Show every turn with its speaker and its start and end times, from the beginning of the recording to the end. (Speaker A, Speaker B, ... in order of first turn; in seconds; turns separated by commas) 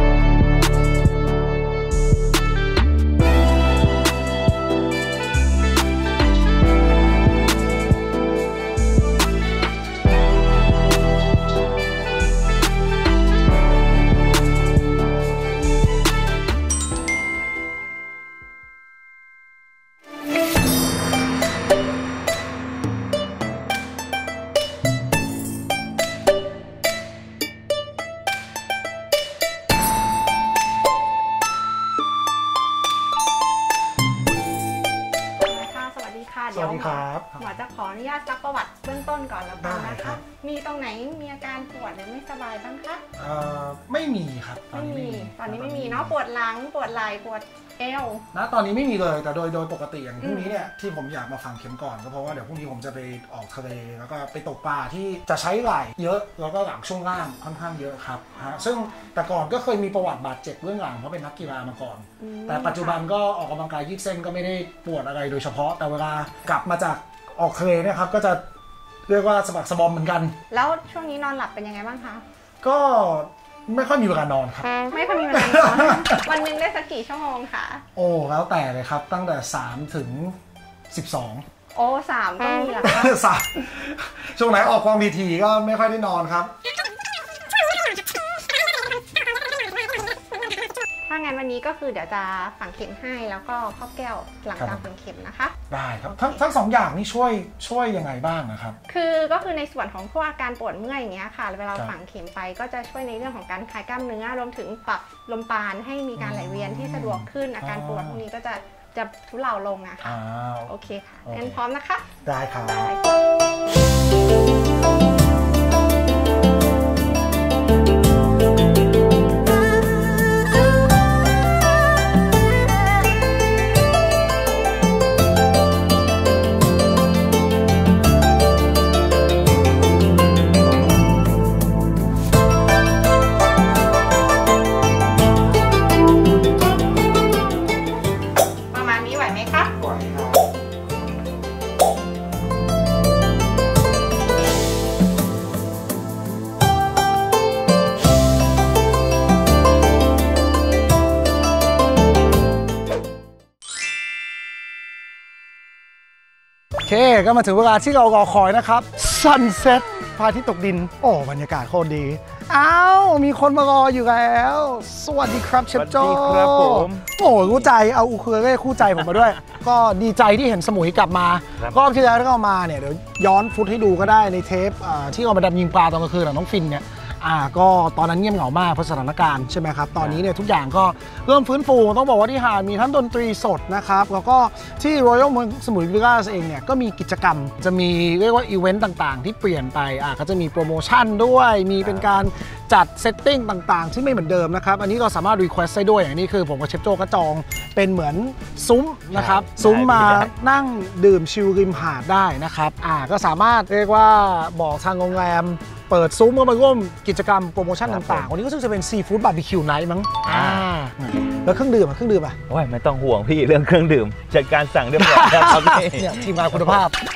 Speaker A: 35.4-43.0, Speaker B: 36.5-37.5, Speaker B: 39.6-40.2, Speaker B: 43.2-46.2, Speaker A: 44.7-48.2, Speaker B: 48.3-68.4, Speaker A: 50.2-50.5, Speaker A: 62.2-63.0, Speaker B: 69.1-70.3, Speaker A: 70.5-72.2, Speaker B: 72.6-76.3, Speaker A: 74.9-77.8, Speaker B: 78.0-80.4, Speaker B: 80.9-81.4, Speaker A: 81.7-83.2, Speaker B: 82.8-86.5, Speaker A: 91.0-95.5, Speaker B: 94.6-94.8, Speaker B: 95.7-98.8, Speaker A: 98.9-110.1, Speaker B: 106.2-108.2, Speaker B: 110.0-110.7, Speaker A: 110.7-113.3, Speaker B: 111.2-111.6, Speaker B: 112.2-112.9, Speaker A: 138.7-140.4, Speaker B: 156.8-212.4, Speaker C: 165.7-167.7, Speaker C: 180.0-180.2, Speaker C: 199.1-200.3, Speaker C: 207.8-208.3, Speaker C: 210.3-210.7, Speaker C: 212.5-216.8, Speaker B: 215.0-217.0